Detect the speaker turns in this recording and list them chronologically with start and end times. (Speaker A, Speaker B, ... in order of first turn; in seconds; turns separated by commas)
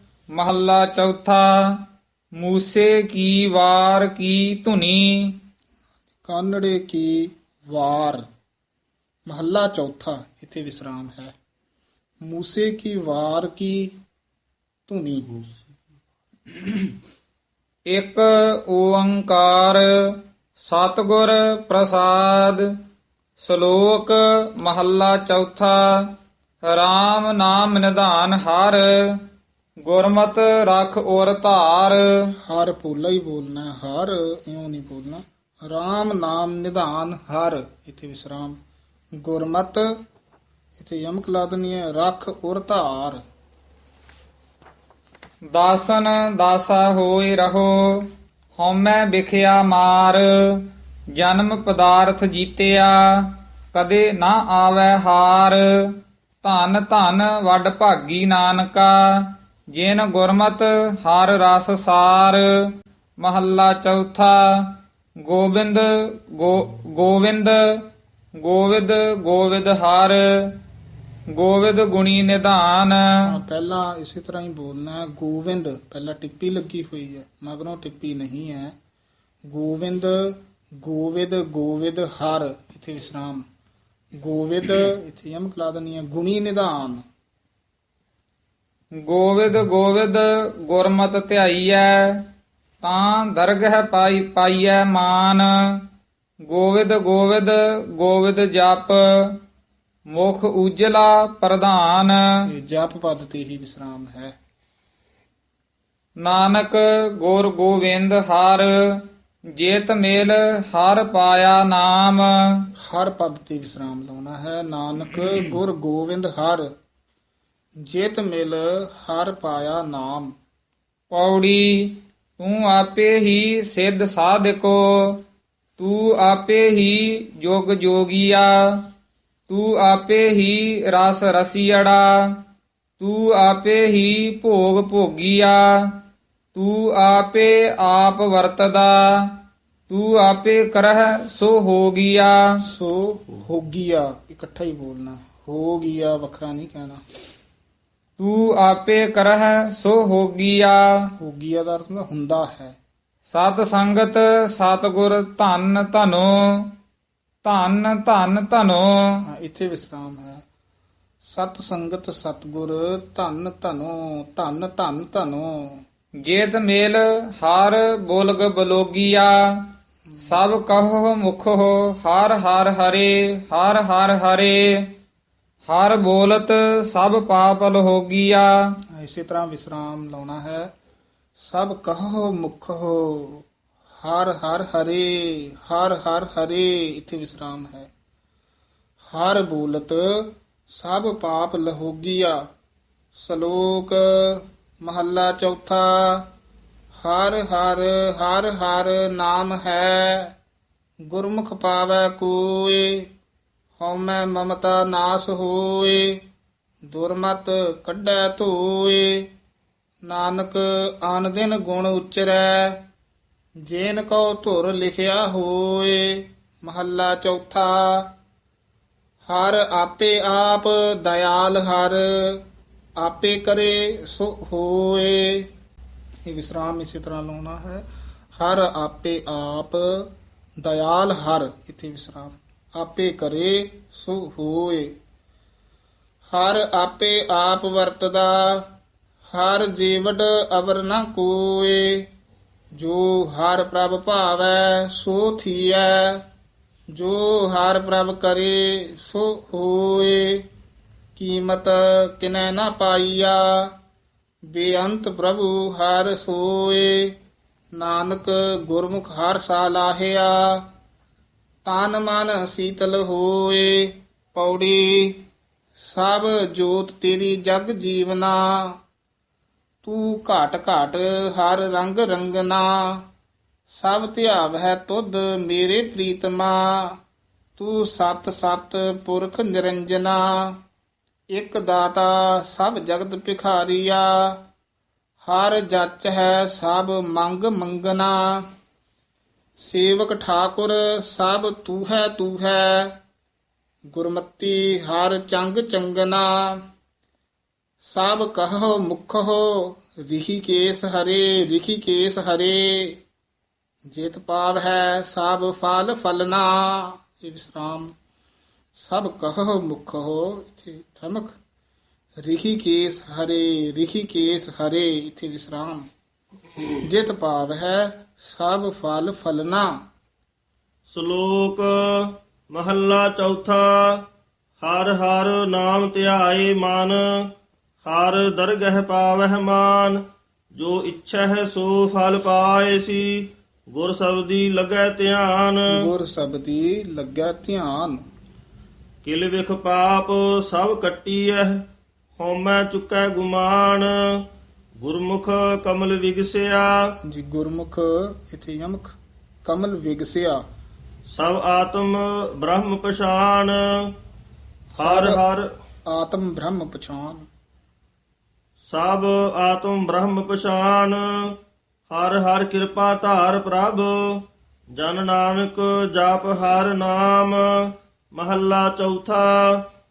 Speaker A: 0.3-1.8, Speaker A: 2.4-5.4, Speaker B: 6.2-8.2, Speaker B: 9.3-11.3, Speaker B: 12.2-13.9, Speaker B: 14.9-15.4, Speaker A: 17.9-22.7, Speaker A: 23.4-26.1, Speaker A: 26.6-29.2, Speaker A: 29.8-32.3, Speaker B: 32.4-38.6, Speaker B: 39.2-39.9, Speaker B: 40.8-43.2, Speaker A: 45.5-62.5, Speaker A: 63.2-67.8, Speaker A: 68.4-70.5, Speaker A: 71.3-73.0, Speaker B: 73.2-78.7, Speaker B: 79.5-83.4, Speaker B: 84.2-87.0, Speaker A: 89.0-92.2, Speaker A: 92.8-95.8, Speaker A: 96.4-99.4, Speaker A: 100.1-102.4, Speaker B: 102.5-104.3, Speaker A: 106.2-109.0, Speaker A: 109.5-112.7, Speaker B: 112.8-116.7, Speaker B: 117.8-120.3, Speaker A: 121.1-125.2, Speaker A: 125.8-128.8, Speaker A: 129.5-132.4, Speaker A: 133.0-135.9, Speaker A: 136.5-139.3, Speaker A: 139.9-142.6, Speaker B: 142.6-147.0, Speaker A: 148.2-151.1, Speaker B: 151.2-152.8, Speaker A: 153.3-156.7, Speaker A: 157.4-159.2, Speaker B: 159.2-160.4, Speaker B: 161.2-165.8, Speaker A: 166.2-169.6, Speaker A: 170.2-174.9, Speaker A: 175.7-178.5, Speaker B: 178.9-180.7, Speaker B: 181.4-183.4, Speaker B: 184.0-187.9, Speaker B: 189.1-192.4, Speaker B: 193.1-196.3, Speaker B: 197.0-200.3, Speaker B: 201.1-203.1, Speaker B: 203.8-206.2, Speaker B: 206.8-209.3, Speaker B: 210.0-212.8, Speaker B: 213.6-218.1, Speaker B: 219.2-222.4, Speaker B: 223.0-225.5, Speaker B: 226.2-234.9, Speaker B: 236.3-238.7, Speaker B: 239.3-242.1, Speaker B: 242.7-246.2, Speaker B: 246.9-250.5, Speaker B: 251.1-253.7, Speaker B: 254.5-257.1, Speaker B: 257.7-260.7, Speaker B: 261.6-265.2, Speaker B: 265.8-268.8, Speaker B: 269.8-273.1, Speaker B: 273.7-277.0, Speaker B: 277.6-280.6, Speaker B: 281.3-284.4, Speaker B: 285.2-288.5, Speaker B: 289.6-293.0, Speaker B: 293.9-296.6, Speaker B: 297.8-303.0, Speaker B: 303.9-307.9, Speaker B: 308.7-311.4, Speaker B: 312.2-315.9, Speaker B: 316.8-319.7, Speaker C: 320.9-324.0, Speaker C: 324.6-327.0, Speaker C: 327.8-330.0, Speaker C: 330.5-335.9, Speaker B: 335.7-338.0, Speaker C: 339.0-341.6, Speaker C: 342.2-344.1, Speaker C: 344.8-346.8, Speaker B: 347.0-350.4, Speaker C: 351.1-353.9, Speaker B: 354.7-355.2, Speaker C: 354.8-355.5, Speaker B: 355.9-357.3, Speaker C: 358.7-361.3, Speaker C: 361.9-364.2, Speaker C: 364.8-369.6